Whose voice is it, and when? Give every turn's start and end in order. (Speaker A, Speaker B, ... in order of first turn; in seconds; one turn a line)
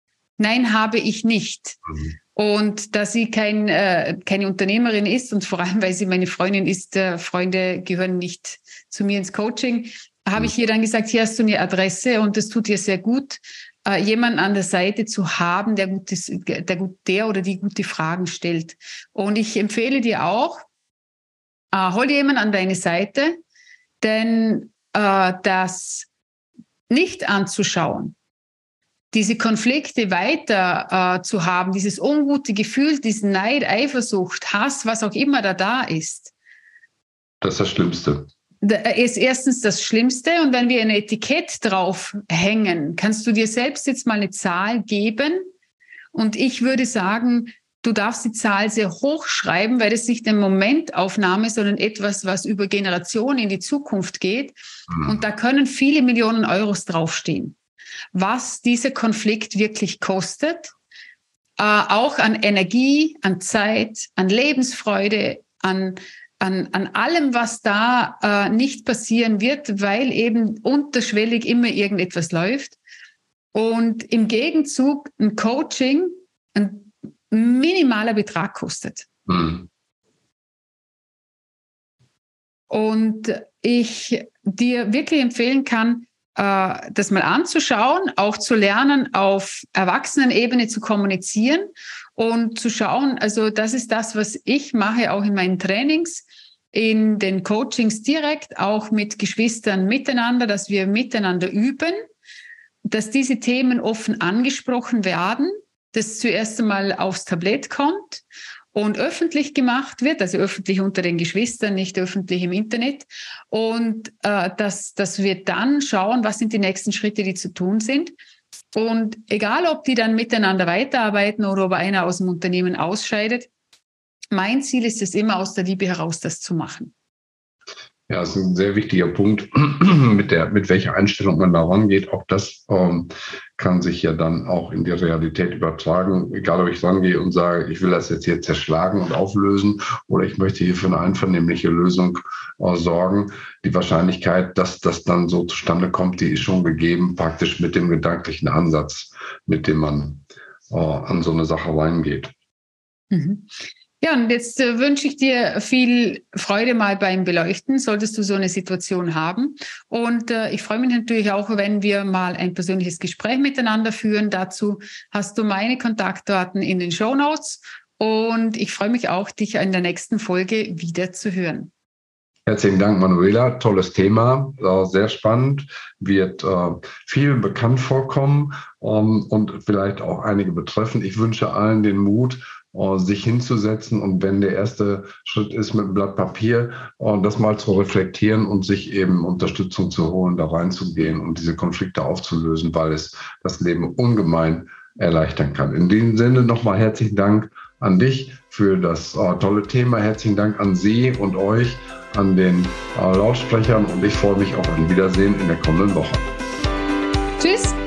Speaker A: 0.4-1.8
Speaker A: 2.4-20.7
Speaker A: 21.7-23.4
Speaker A: 24.0-26.1
Speaker A: 26.9-28.1
Speaker A: 29.1-36.3
Speaker B: 37.4-38.3
Speaker A: 38.6-45.5
Speaker A: 46.1-57.6
Speaker A: 58.1-60.7
Speaker A: 61.6-72.8
Speaker A: 73.5-79.1
Speaker B: 79.3-79.7
Speaker A: 82.7-102.0
Speaker A: 102.8-118.1
Speaker A: 118.7-123.5
Speaker A: 124.3-126.9
Speaker B: 128.1-152.3
Speaker A: 153.1-153.5
Speaker A: 154.0-171.7
Speaker B: 172.5-206.2
Speaker A: 207.4-207.8